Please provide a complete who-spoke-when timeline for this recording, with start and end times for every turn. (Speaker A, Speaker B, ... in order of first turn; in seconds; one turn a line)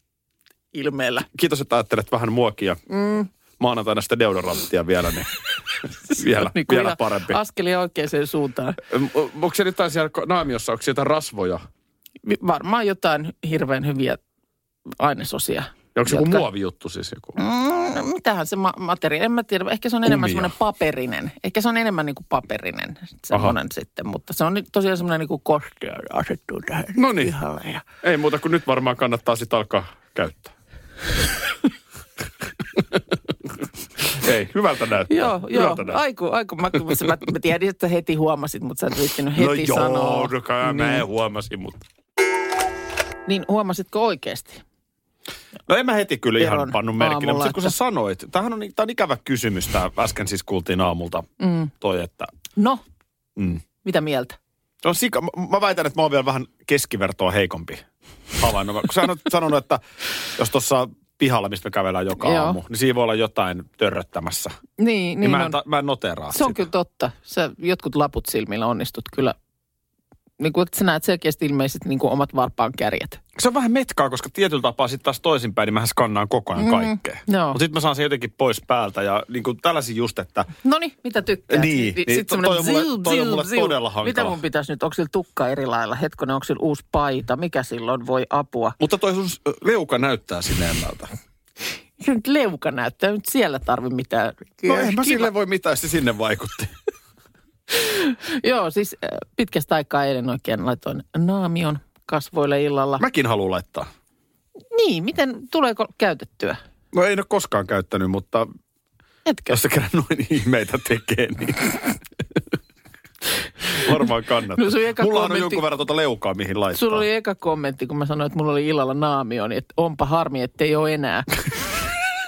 Speaker A: 0.7-1.3
Speaker B: 1.3-2.8
Speaker A: 2.9-3.3
Speaker B: 3.6-7.4
Speaker A: 6.1-8.8
Speaker B: 8.9-11.6
Speaker A: 12.2-14.2
Speaker A: 15.0-16.4
Speaker B: 15.9-17.4
Speaker A: 17.4-27.9
Speaker B: 20.1-20.5
Speaker B: 26.9-27.3
Speaker B: 28.0-30.5
Speaker B: 34.0-36.0
Speaker A: 35.1-41.0
Speaker B: 39.3-41.8
Speaker A: 43.3-44.6
Speaker B: 45.7-52.3
Speaker A: 46.4-47.7
Speaker A: 51.4-51.7
Speaker A: 52.6-52.8
Speaker B: 53.4-53.6
Speaker A: 53.8-54.4
Speaker B: 54.8-57.8
Speaker B: 58.4-59.8
Speaker B: 60.3-64.5
Speaker A: 62.2-62.6
Speaker A: 64.8-65.6
Speaker B: 65.2-66.7
Speaker A: 66.3-69.3
Speaker A: 70.4-73.2
Speaker B: 73.4-80.5
Speaker A: 76.6-77.6
Speaker A: 80.6-88.7
Speaker B: 81.5-84.3
Speaker B: 88.8-91.1
Speaker A: 92.0-95.3
Speaker B: 94.7-96.7
Speaker A: 97.7-103.0
Speaker B: 103.0-103.9
Speaker A: 104.7-106.6
Speaker B: 106.9-108.5
Speaker A: 109.2-109.6
Speaker B: 109.5-111.8
Speaker B: 113.7-117.0
Speaker A: 114.6-115.6
Speaker A: 116.7-121.3